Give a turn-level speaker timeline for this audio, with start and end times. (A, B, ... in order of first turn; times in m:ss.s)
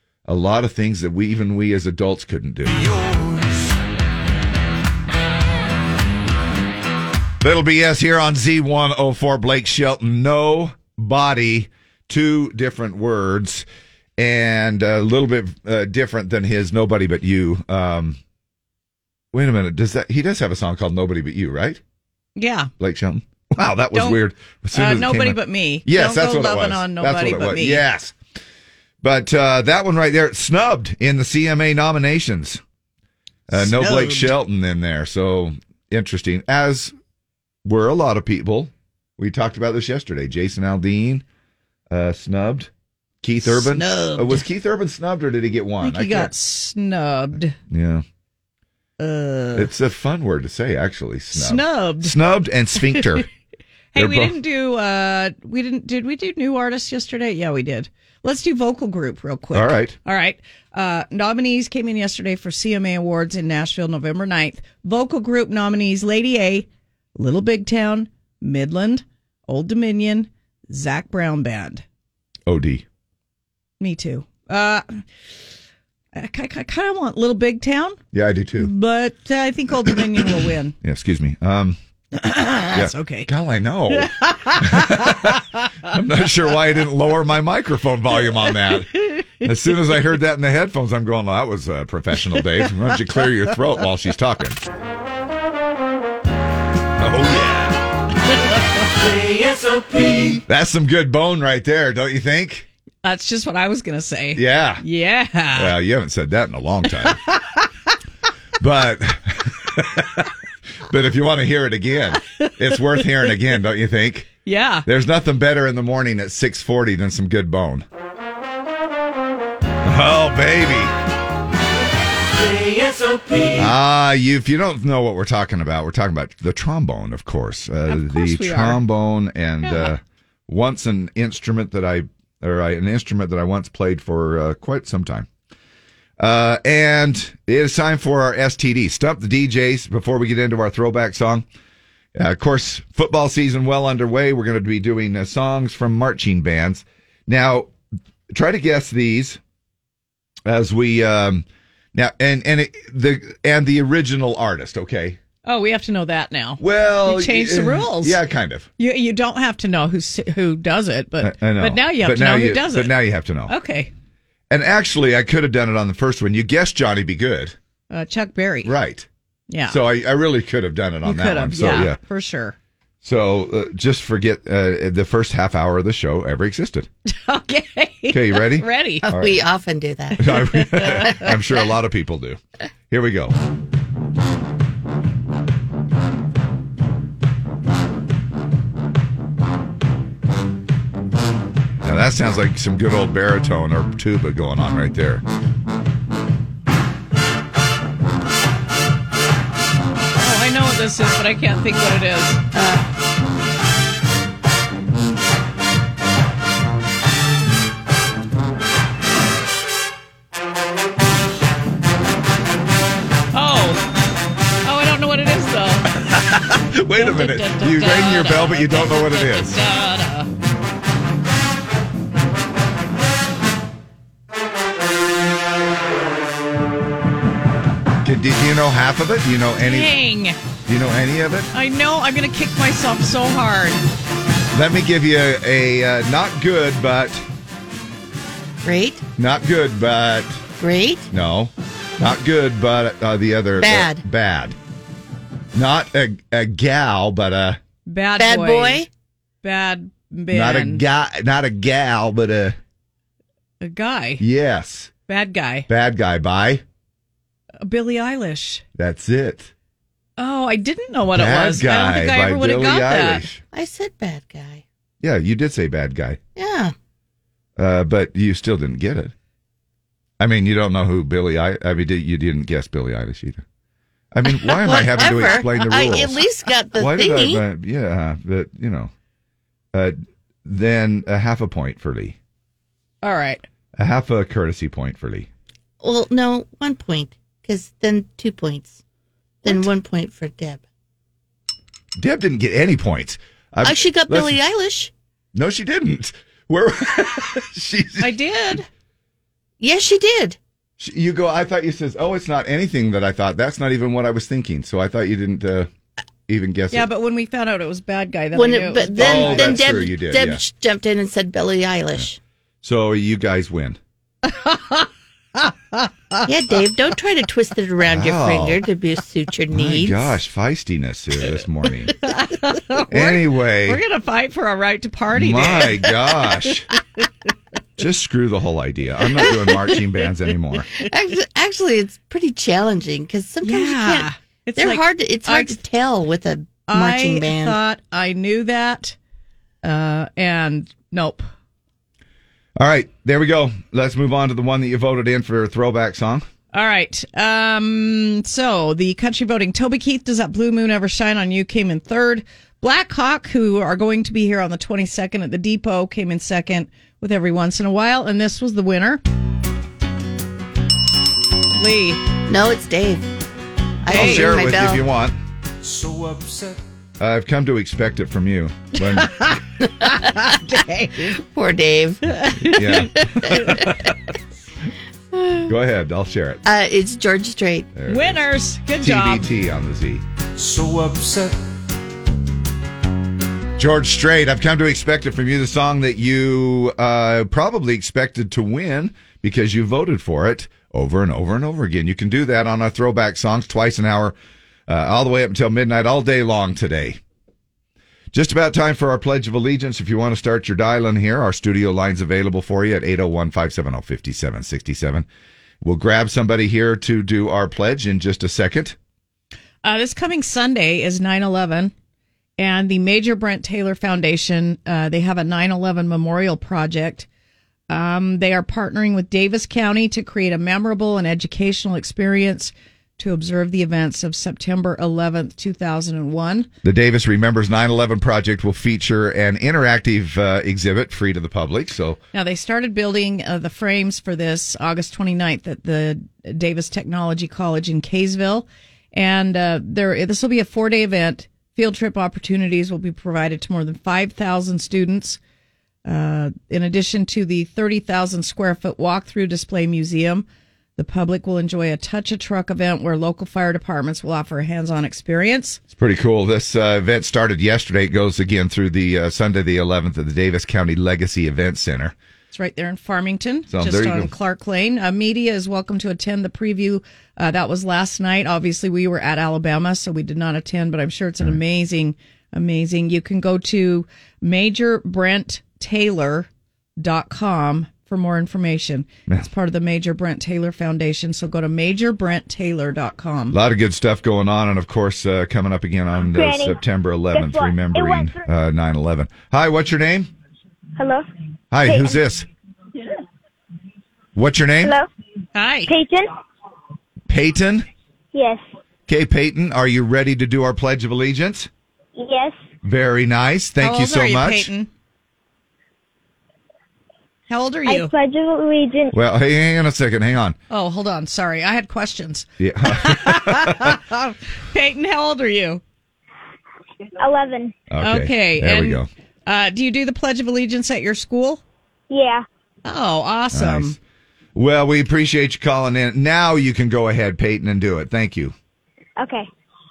0:00.3-0:02.8 A
0:07.4-0:13.7 A
0:14.2-0:18.2 A
0:19.3-0:21.8 A
0:22.4-0:22.7 B
0:22.8-0:28.1 A
0:23.9-0:24.2 B
0:24.7-0:27.8 B
0:29.0-0:32.6 A
0:33.5-0:36.9 A
0:33.9-0:34.3 C
0:37.6-0:41.2 A
0:41.9-0:42.7 A
0:43.2-0:46.3 A
0:43.5-0:44.3 C
0:45.8-0:47.5 B
0:47.7-0:48.0 A
0:49.0-0:49.7 B
0:49.5-0:53.2 A
0:51.3-0:52.2 B
0:52.8-0:53.2 B
0:53.9-1:11.8 B
0:54.0-0:54.4 A
0:59.5-0:59.9 A
1:12.4-1:12.8 A
1:13.8-1:15.0 B
1:16.1-1:18.0 B
1:18.1-1:18.7 A
1:18.6-1:20.7 B
1:20.8-1:21.8 A
1:22.1-1:23.3 B
1:22.7-1:34.6 A
1:23.9-1:25.4 B
1:37.0-1:37.8 A
1:40.4-1:42.7 A
1:43.0-1:45.8 B
1:44.3-1:44.8 A
1:45.5-1:47.2 A
1:47.0-1:47.6 B
1:48.6-1:50.3 A
1:50.9-1:54.3 A
1:52.4-1:53.3 B
1:54.4-1:54.8 B
1:54.8-1:57.8 A
1:59.8-2:00.9 A
2:03.5-2:15.3 A
2:07.9-2:08.8 B
2:09.6-2:09.9 B
2:16.2-2:21.4 A
2:22.1-2:27.7 A
2:28.3-2:29.4 A
2:30.4-2:35.2 A
2:35.4-2:38.2 B
2:36.6-2:38.7 A
2:38.8-2:42.9 B
2:41.2-2:43.5 A
2:43.5-2:43.9 B
2:44.5-2:47.5 A
2:47.9-2:48.7 B
2:48.6-2:49.1 A
2:49.5-2:49.8 B
2:49.7-2:52.0 A
2:51.0-2:52.5 B
2:53.0-2:56.9 A
2:57.0-2:59.0 B
2:58.1-2:59.4 A
2:59.1-3:00.9 C
3:00.2-3:02.4 A
3:00.3-3:01.3 B
3:02.9-3:03.4 A
3:11.8-3:15.2 A
3:20.2-3:22.4 B
3:33.3-3:33.8 B
3:34.6-3:35.9 B
3:36.0-3:39.6 A
3:36.9-3:40.3 B
3:48.0-3:49.9 A
3:49.6-3:50.4 B
3:50.7-3:51.5 A
3:51.5-3:53.8 B
3:54.5-3:57.2 A
3:58.6-3:59.0 C
3:59.2-4:00.4 A
4:00.6-4:01.1 C
4:01.1-4:04.6 A
4:03.6-4:04.0 C
4:05.5-4:07.6 A
4:07.9-4:08.8 B
4:08.2-4:08.9 C
4:09.4-4:10.8 B
4:10.3-4:12.6 A
4:13.6-4:14.2 B
4:14.2-4:14.9 A
4:15.1-4:15.7 B
4:15.7-4:16.6 A
4:17.6-4:18.6 B
4:18.8-4:19.5 A
4:20.2-4:23.2 B
4:21.1-4:23.4 A
4:23.5-4:24.6 C
4:25.0-4:26.2 A
4:26.4-4:26.7 C
4:27.6-4:29.1 A
4:30.2-4:33.4 A
4:34.1-4:36.2 A
4:34.3-4:37.4 C
4:36.8-4:38.9 A
4:39.7-4:42.2 A
4:43.0-4:43.4 B
4:43.8-4:45.3 A
4:45.8-4:48.8 C
4:49.4-4:50.6 C
4:52.0-4:54.4 A
4:53.6-4:54.9 C
4:55.3-4:58.1 A
4:58.0-4:58.7 B
4:59.6-5:00.4 C
5:00.8-5:05.7 A
5:06.3-5:06.9 A
5:06.7-5:09.7 B
5:08.3-5:12.2 C
5:08.9-5:10.4 A
5:12.6-5:13.8 A
5:14.2-5:16.2 B
5:16.2-5:20.1 C
5:17.9-5:18.6 A
5:19.5-5:21.9 A
5:22.0-5:26.4 B
5:22.9-5:23.8 A
5:25.1-5:26.7 A
5:27.8-5:30.7 A
5:30.8-5:37.6 C
5:33.4-5:35.6 B
5:36.7-5:39.0 B
5:39.6-5:41.3 B
5:42.6-5:46.2 A
5:46.5-5:59.0 B
6:01.6-6:02.0 B
6:02.3-6:03.0 C
6:03.8-6:04.8 C
6:03.9-6:04.5 B
6:03.9-6:05.2 A
6:05.6-6:06.6 D
6:07.0-6:09.2 A
6:08.8-6:11.1 B
6:09.6-6:10.2 C
6:11.1-6:12.2 C
6:12.2-6:12.6 B
6:12.4-6:13.9 A
6:13.2-6:13.6 C
6:15.1-6:15.5 C
6:15.5-6:16.4 A
6:16.4-6:17.7 C
6:17.7-6:18.2 A
6:17.9-6:19.2 B
6:18.8-6:20.0 A
6:20.4-6:21.4 D
6:23.6-6:34.2 A
6:34.7-6:37.0 A
6:38.1-6:45.0 A
6:45.6-6:48.8 A
6:49.6-6:51.7 B
6:52.4-6:57.1 B
6:57.7-7:06.5 B
7:06.6-7:12.0 A
7:12.1-7:25.2 B
7:25.8-7:30.2 B
7:30.8-7:35.6 B
7:35.8-7:41.9 A
7:42.3-8:03.4 B
7:43.5-7:44.1 A
8:03.3-8:10.1 A
8:06.0-8:06.6 E
8:07.1-8:08.2 E
8:10.8-8:11.0 E
8:11.5-8:12.3 A
8:11.6-8:12.0 E
8:14.1-8:14.7 A
8:15.3-8:15.7 B
8:15.7-8:16.1 E
8:17.1-8:17.7 A
8:18.1-8:18.4 E
8:18.9-8:21.5 A
8:22.0-8:22.4 E
8:22.6-8:24.5 A
8:23.6-8:24.7 B
8:27.3-8:27.9 B
8:27.6-8:28.9 E
8:28.9-8:30.4 A
8:30.5-8:35.6 B
8:32.4-8:33.8 A
8:37.0-8:37.6 E
8:37.7-8:38.9 A
8:37.8-8:41.4 B
8:41.9-8:42.2 E
8:42.6-8:43.8 B
8:43.3-8:43.8 A
8:44.3-8:48.3 A
8:49.0-8:49.3 E